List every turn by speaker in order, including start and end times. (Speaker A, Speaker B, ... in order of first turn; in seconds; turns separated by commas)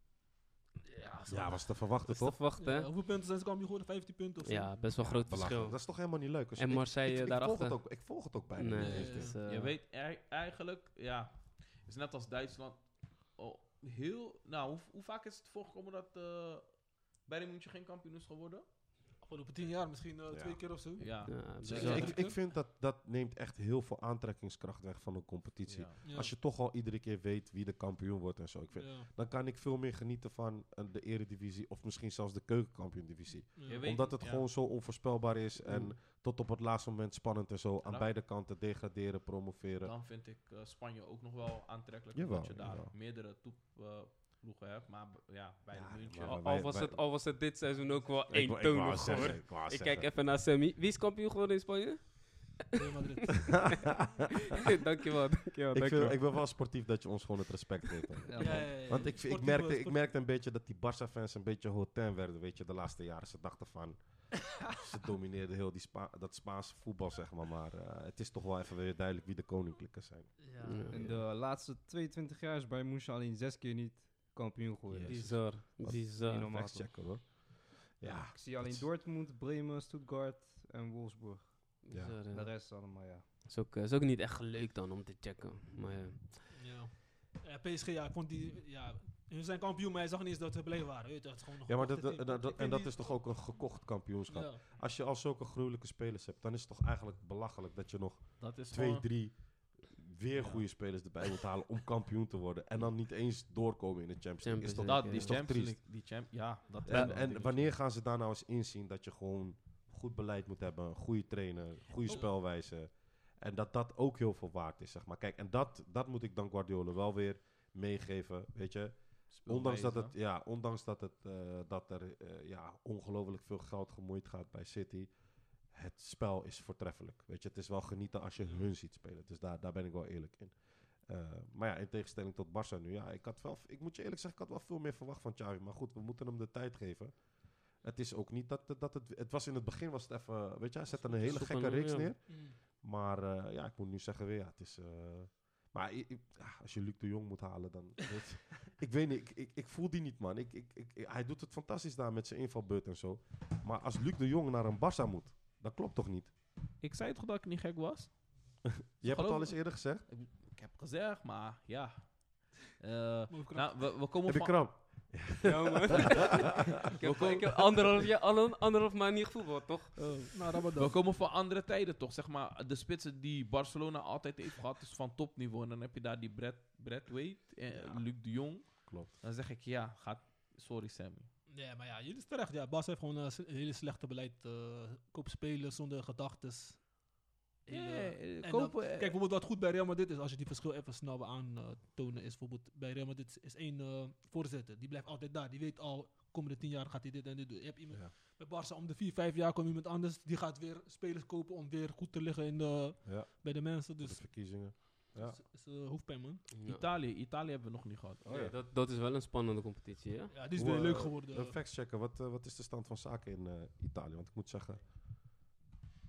Speaker A: 0.8-2.9, Speaker B: 1.3-2.4, Speaker C: 2.6-5.5, Speaker A: 4.4-9.8, Speaker B: 5.2-9.3, Speaker C: 8.7-9.4, Speaker D: 9.4-18.6, Speaker C: 19.2-22.4, Speaker B: 20.3-39.9, Speaker D: 21.0-22.2, Speaker A: 21.2-22.2, Speaker D: 25.7-26.0, Speaker C: 26.0-26.3, Speaker C: 28.7-29.1, Speaker C: 33.5-33.9, Speaker D: 33.6-34.5, Speaker A: 35.6-35.9, Speaker D: 37.8-38.1, Speaker D: 39.8-46.4, Speaker B: 42.1-42.9, Speaker B: 45.7-47.0, Speaker A: 46.2-54.1, Speaker B: 48.3-50.1, Speaker C: 52.7-54.0, Speaker A: 54.6-56.5, Speaker B: 55.7-71.3, Speaker E: 58.3-59.1, Speaker C: 58.4-60.0, Speaker C: 70.4-71.0, Speaker A: 70.6-71.0, Speaker E: 70.9-77.5, Speaker B: 74.9-78.9, Speaker A: 75.0-76.7, Speaker E: 78.0-83.2, Speaker A: 81.8-86.2, Speaker B: 81.9-82.2, Speaker C: 86.2-94.6, Speaker B: 91.7-106.3, Speaker D: 98.4-99.2, Speaker D: 100.3-101.1, Speaker A: 104.4-105.4, Speaker D: 104.8-107.8, Speaker B: 106.8-156.3, Speaker A: 106.8-107.2, Speaker C: 112.1-112.4, Speaker D: 119.3-120.1, Speaker A: 141.1-142.1, Speaker C: 142.3-142.6, Speaker D: 156.8-165.0, Speaker B: 158.9-160.1, Speaker C: 163.3-163.9, Speaker B: 164.2-166.0, Speaker A: 165.4-170.5, Speaker D: 167.0-167.6, Speaker C: 170.3-171.0, Speaker D: 170.7-181.3, Speaker B: 177.7-179.1, Speaker C: 181.5-206.5, Speaker D: 187.7-189.2, Speaker B: 203.0-205.4, Speaker A: 206.5-206.8, Speaker D: 206.6-208.2, Speaker B: 208.2-208.5, Speaker A: 208.2-210.3, Speaker C: 210.3-211.6, Speaker B: 210.5-214.8